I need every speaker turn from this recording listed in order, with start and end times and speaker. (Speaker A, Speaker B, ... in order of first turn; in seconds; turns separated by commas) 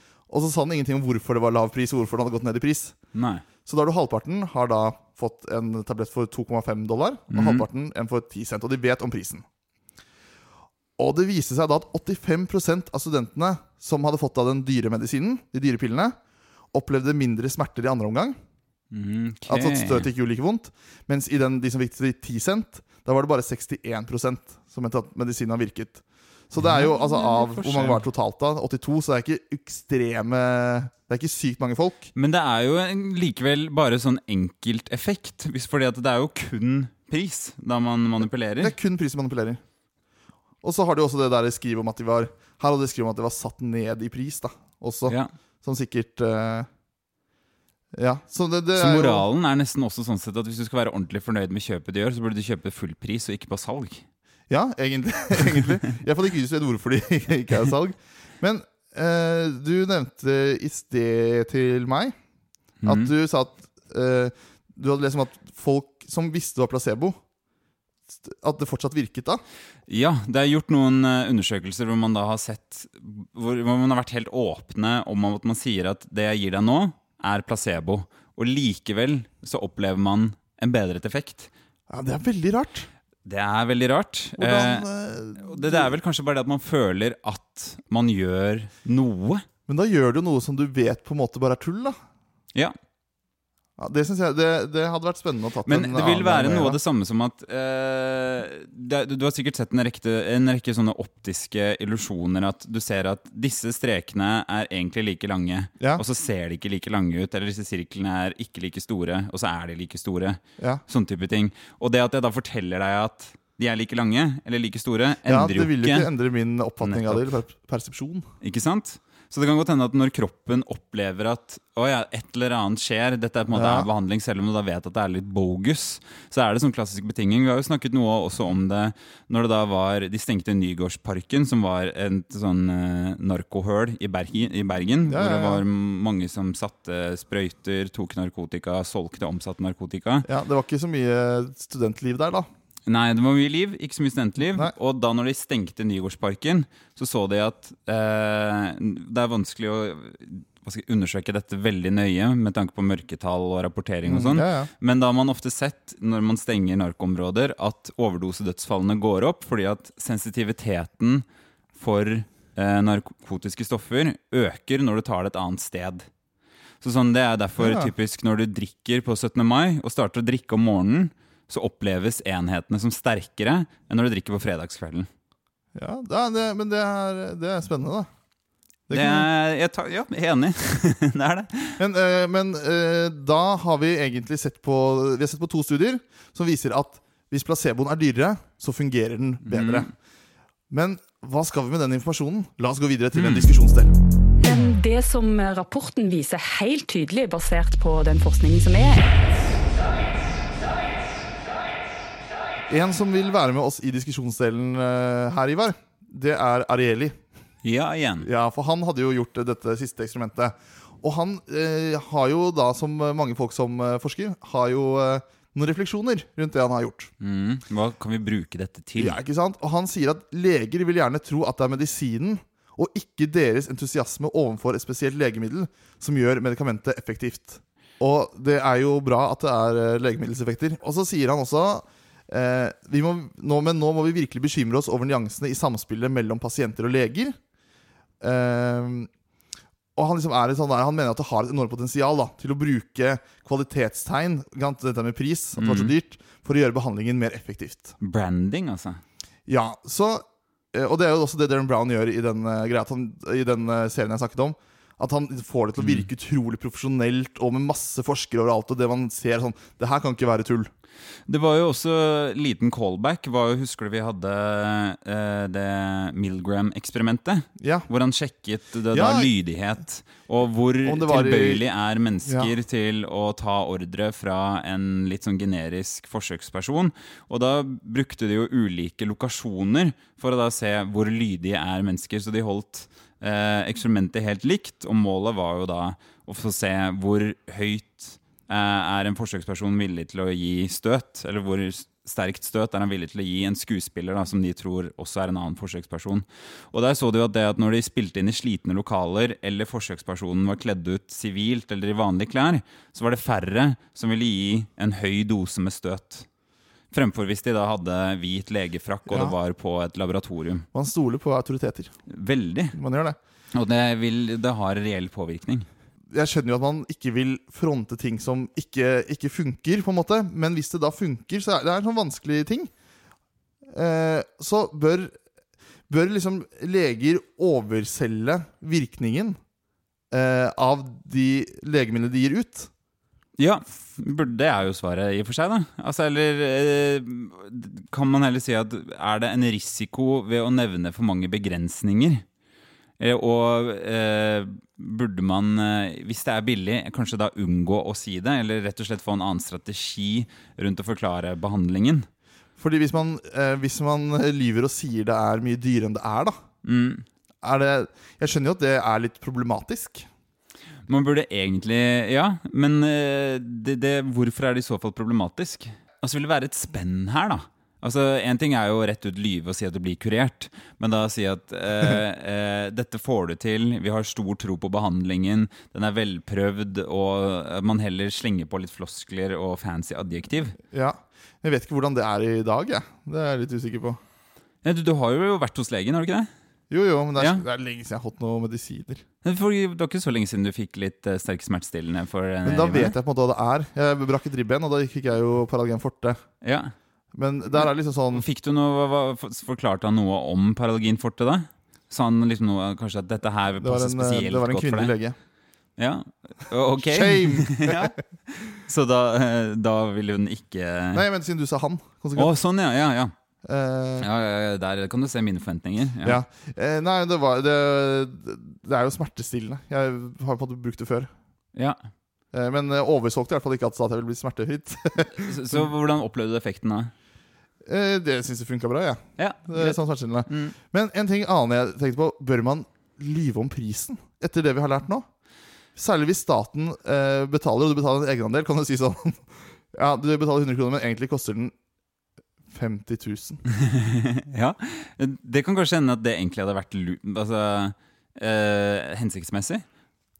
Speaker A: 0.3-3.0, Speaker B: 3.1-3.4, Speaker A: 3.6-9.4, Speaker B: 7.3-7.7, Speaker A: 11.0-16.2, Speaker A: 16.7-18.4, Speaker B: 18.9-20.1, Speaker A: 19.5-32.1, Speaker B: 26.6-28.0, Speaker B: 32.1-38.7, Speaker A: 38.6-39.6, Speaker A: 40.6-46.7, Speaker B: 45.1-45.3, Speaker A: 48.0-49.2, Speaker B: 48.8-54.0, Speaker A: 54.5-62.1, Speaker B: 62.8-63.1, Speaker A: 62.9-67.2, Speaker A: 68.2-69.4, Speaker B: 69.9-81.5, Speaker A: 81.9-82.9, Speaker B: 83.2-89.5, Speaker A: 84.4-85.9, Speaker A: 89.7-92.0, Speaker A: 93.8-96.8, Speaker B: 95.7-116.1, Speaker A: 115.3-118.3, Speaker B: 116.8-117.4, Speaker B: 118.4-140.3, Speaker A: 123.5-123.9, Speaker A: 135.1-135.6, Speaker A: 140.2-142.5, Speaker B: 142.9-166.1, Speaker A: 154.1-154.7, Speaker B: 166.8-175.1, Speaker A: 167.6-167.9, Speaker A: 175.8-178.1, Speaker A: 178.9-179.3, Speaker B: 178.9-181.8, Speaker A: 181.8-189.9, Speaker B: 189.4-189.9, Speaker A: 190.7-193.9, Speaker B: 193.2-193.5, Speaker C: 194.4-199.1, Speaker A: 202.7-207.2, Speaker B: 207.6-208.3, Speaker A: 208.2-217.1, Speaker B: 217.2-219.2, Speaker A: 219.0-237.4, Speaker A: 238.2-239.1, Speaker A: 240.0-247.9, Speaker B: 245.6-245.9, Speaker B: 248.0-249.0, Speaker A: 249.5-260.7, Speaker B: 255.8-256.1, Speaker B: 261.3-306.3, Speaker A: 267.6-267.9, Speaker A: 268.9-269.3, Speaker A: 270.9-271.6, Speaker B: 306.9-310.7, Speaker A: 309.1-309.4, Speaker A: 310.7-311.9, Speaker B: 312.1-312.8, Speaker A: 312.7-313.2, Speaker B: 313.5-315.7, Speaker A: 316.1-322.7, Speaker A: 323.7-325.2, Speaker A: 325.9-329.4, Speaker A: 330.1-332.7, Speaker B: 333.4-342.2, Speaker B: 343.0-352.1, Speaker A: 352.6-356.4, Speaker B: 356.6-357.1, Speaker A: 357.4-360.1, Speaker B: 360.9-380.6, Speaker A: 380.7-384.0, Speaker B: 384.6-386.3, Speaker A: 386.7-389.0, Speaker B: 387.2-387.4, Speaker B: 389.2-392.9, Speaker A: 392.4-396.2, Speaker B: 396.4-396.7, Speaker A: 397.1-398.2, Speaker B: 397.6-404.9, Speaker A: 403.6-405.1, Speaker B: 405.8-407.9, Speaker A: 406.9-407.9, Speaker B: 408.5-411.0, Speaker A: 410.9-412.3, Speaker B: 412.1-413.1, Speaker A: 413.5-414.1, Speaker B: 414.0-416.2, Speaker A: 416.0-421.1, Speaker A: 422.3-425.7, Speaker B: 425.2-426.9, Speaker A: 427.7-435.1, Speaker B: 429.2-430.6, Speaker A: 435.8-441.5, Speaker A: 442.5-443.4, Speaker B: 443.6-449.6